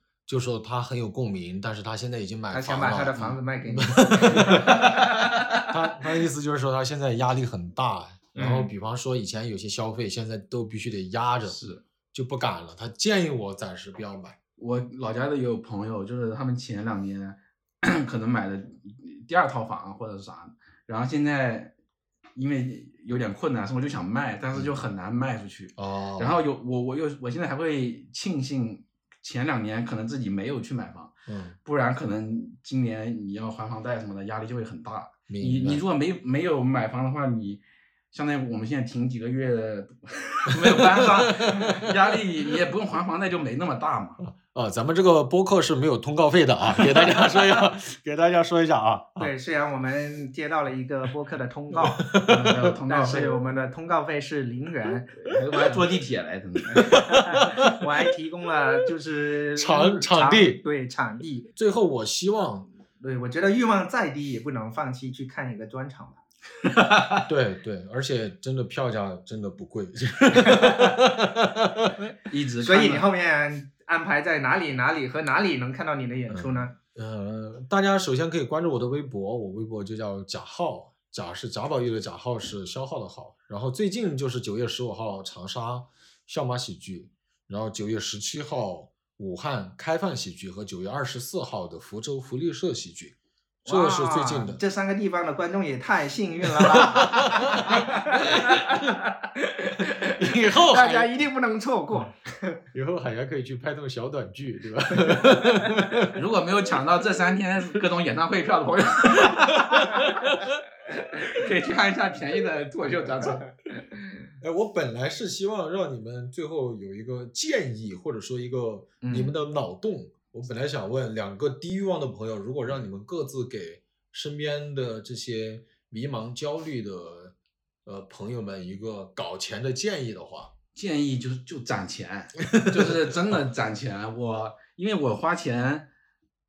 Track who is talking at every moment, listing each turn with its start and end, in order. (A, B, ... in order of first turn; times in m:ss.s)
0:00.3-0:03.2 A
0:02.5-0:05.3 B
0:03.7-0:04.8 A
0:04.6-0:05.7 C
0:05.6-0:11.6 A
0:08.4-0:08.7 B
0:11.4-0:11.8 C
0:12.1-0:14.4 A
0:14.6-0:21.7 C
0:22.4-0:31.1 C
0:25.8-0:26.4 A
0:31.3-0:31.6 A
0:31.6-0:44.2 C
0:35.3-0:35.8 A
0:40.5-0:41.9 A
0:44.2-0:49.3 A
0:46.8-0:47.3 C
0:49.2-0:55.2 B
0:51.7-0:52.8 A
0:52.3-0:53.4 C
0:55.2-0:56.9 C
0:56.7-1:01.5 B
0:56.8-0:57.8 A
0:59.6-1:00.6 A
1:01.6-1:02.7 A
1:03.0-1:06.2 B
1:06.6-1:07.2 C
1:07.3-1:12.1 A
1:10.3-1:11.0 B
1:12.3-1:13.1 C
1:12.6-1:16.7 B
1:16.3-1:34.6 A
1:33.6-1:42.6 B
1:36.6-1:37.9 A
1:40.2-1:41.1 A
1:42.7-1:46.2 A
1:46.1-1:50.3 C
1:49.6-1:50.5 A
1:51.0-1:53.4 C
1:53.2-1:53.5 B
1:54.4-2:07.3 A
1:59.0-1:59.3 B
2:07.8-2:10.5 A
2:10.8-2:15.9 C
2:12.5-2:13.0 A